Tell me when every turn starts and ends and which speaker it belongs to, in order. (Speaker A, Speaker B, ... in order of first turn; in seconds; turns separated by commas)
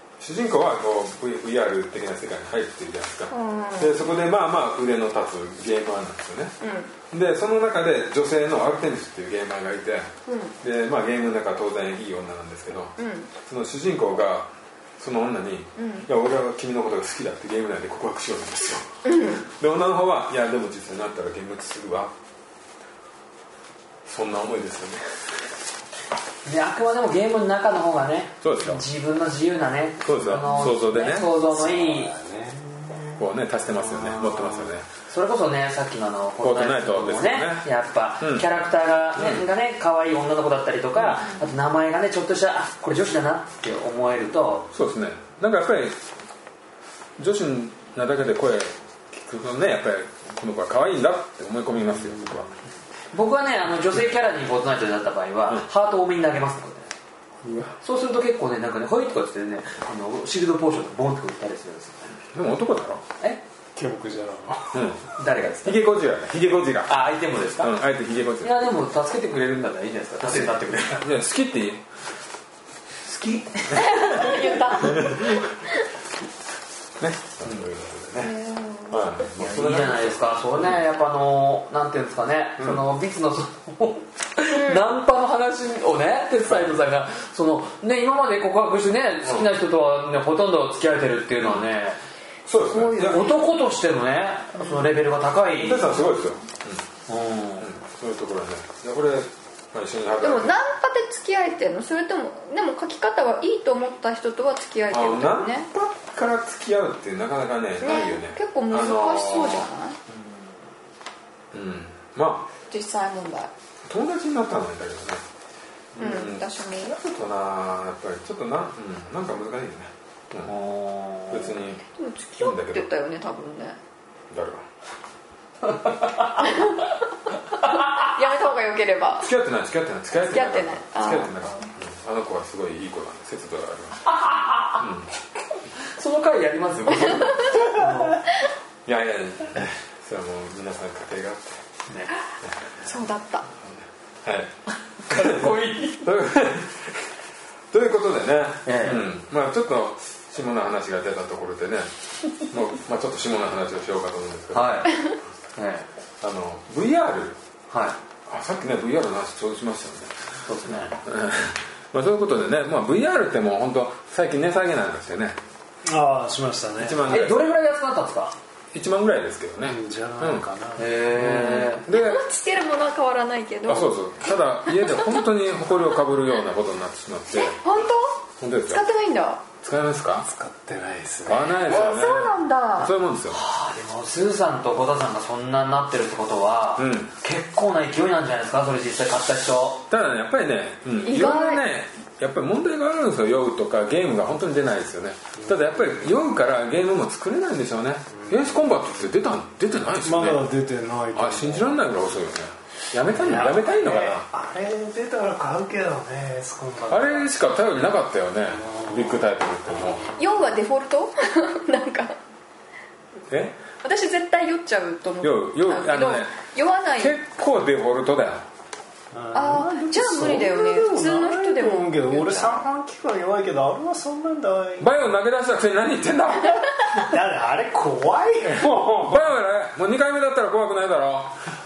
Speaker A: 0.2-6.5, Speaker B: 3.3-4.0, Speaker B: 6.6-6.9, Speaker A: 7.1-22.1, Speaker B: 10.3-10.5, Speaker B: 13.0-13.3, Speaker B: 15.8-16.1, Speaker B: 19.1-19.4, Speaker A: 24.1-25.2, Speaker C: 26.4-32.1, Speaker A: 28.4-28.8, Speaker A: 30.0-31.3, Speaker D: 30.5-33.2, Speaker A: 33.2-34.9, Speaker D: 33.8-34.5, Speaker C: 34.5-44.7, Speaker A: 36.4-37.7, Speaker A: 38.2-38.5, Speaker A: 39.2-39.4, Speaker A: 41.0-41.3, Speaker A: 44.7-46.0, Speaker A: 47.2-52.5, Speaker C: 53.1-56.9, Speaker A: 57.4-57.8, Speaker C: 57.8-62.2, Speaker A: 62.3-63.0, Speaker D: 63.8-64.8, Speaker A: 64.7-67.0, Speaker C: 65.2-65.8, Speaker C: 66.9-67.8, Speaker A: 67.6-68.6, Speaker C: 68.4-71.0, Speaker A: 70.2-71.8, Speaker C: 73.0-75.0, Speaker B: 73.7-75.7, Speaker A: 74.8-75.3, Speaker A: 77.0-78.4, Speaker B: 78.2-79.0, Speaker A: 78.9-80.8, Speaker C: 79.4-92.0, Speaker B: 84.5-84.8, Speaker A: 92.5-93.3, Speaker B: 92.7-93.3, Speaker C: 93.0-96.0, Speaker A: 95.6-96.8, Speaker C: 97.1-97.7, Speaker A: 97.6-100.5, Speaker B: 100.2-105.7, Speaker A: 104.9-109.7, Speaker B: 107.8-110.0, Speaker C: 110.1-110.5, Speaker A: 111.5-112.5, Speaker B: 112.7-113.5, Speaker A: 113.9-115.2, Speaker A: 116.0-120.5, Speaker B: 116.0-117.0, Speaker C: 120.5-121.6, Speaker A: 121.3-121.8, Speaker B: 122.0-123.8, Speaker A: 122.4-122.9, Speaker A: 124.3-124.6, Speaker C: 125.7-126.7, Speaker B: 126.5-126.8, Speaker B: 127.7-129.3, Speaker A: 129.2-134.2, Speaker B: 130.3-131.7, Speaker C: 134.1-134.8, Speaker A: 134.8-135.1, Speaker C: 135.8-138.2, Speaker B: 137.1-137.6, Speaker A: 138.9-141.6, Speaker B: 142.8-143.5, Speaker A: 143.6-144.5, Speaker C: 145.1-146.1, Speaker A: 145.1-147.1, Speaker A: 147.7-155.1, Speaker C: 148.7-149.1, Speaker C: 154.5-155.0, Speaker C: 155.6-155.9, Speaker A: 156.2-157.4, Speaker C: 157.7-158.0, Speaker A: 158.3-165.4, Speaker C: 160.4-161.0, Speaker D: 165.8-167.2, Speaker A: 166.8-167.5, Speaker C: 167.1-168.4, Speaker A: 168.7-170.5, Speaker D: 169.6-171.0, Speaker C: 170.8-171.8, Speaker A: 171.1-172.2, Speaker B: 171.9-173.9, Speaker A: 173.7-177.6, Speaker B: 174.7-175.2, Speaker B: 177.3-179.4, Speaker A: 178.4-178.8, Speaker A: 179.6-180.3, Speaker D: 180.2-181.6, Speaker A: 181.2-183.4, Speaker B: 181.6-182.9, Speaker C: 183.3-189.9, Speaker A: 186.8-187.1, Speaker A: 189.9-200.5, Speaker B: 191.0-191.6, Speaker D: 195.4-196.2, Speaker D: 198.1-198.5, Speaker D: 200.0-201.9, Speaker A: 201.1-204.2, Speaker D: 203.1-207.3, Speaker A: 206.9-210.1, Speaker D: 208.5-210.2, Speaker B: 210.2-212.2, Speaker A: 213.3-213.6, Speaker B: 213.8-217.2, Speaker A: 215.2-216.3, Speaker A: 217.0-218.5, Speaker D: 219.1-225.0, Speaker B: 219.3-222.6, Speaker A: 224.8-227.0, Speaker D: 226.9-229.2, Speaker A: 229.0-231.4